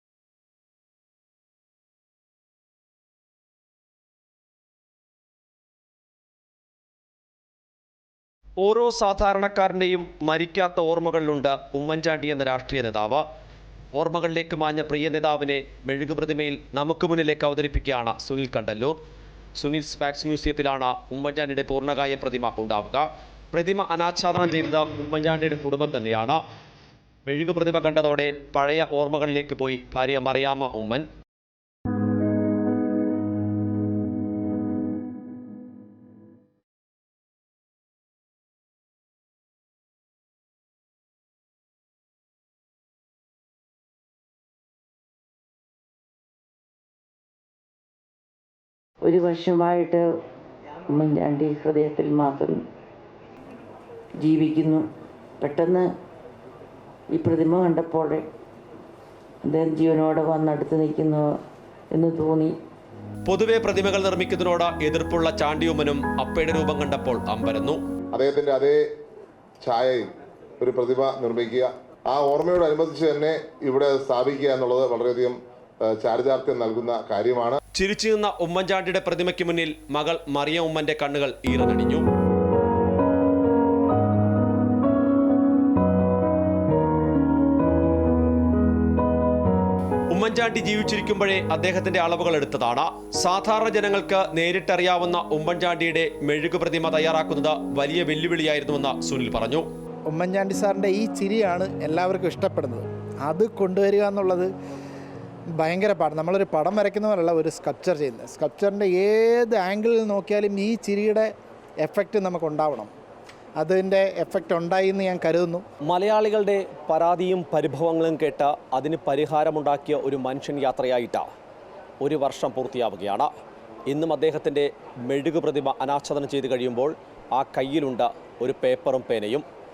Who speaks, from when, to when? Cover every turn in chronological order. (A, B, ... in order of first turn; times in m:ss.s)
0:08.6-0:13.2 A
0:13.9-0:19.0 A
0:19.6-0:26.4 A
0:27.2-0:31.1 A
0:49.0-0:50.0 B
0:50.9-0:52.6 B
0:54.2-0:54.8 B
0:55.4-0:55.8 B
0:57.1-0:58.2 B
0:59.4-1:01.2 B
1:01.9-1:02.6 B
1:03.2-1:07.8 A
1:08.1-1:08.8 C
1:09.6-1:17.6 C
1:17.7-1:22.0 A
1:30.1-1:39.6 A
1:40.1-1:44.5 D
1:45.6-1:51.3 D
1:51.8-1:52.9 D
1:53.6-1:55.6 D
1:55.8-2:01.2 A
2:02.0-2:03.3 A
2:03.9-2:09.4 A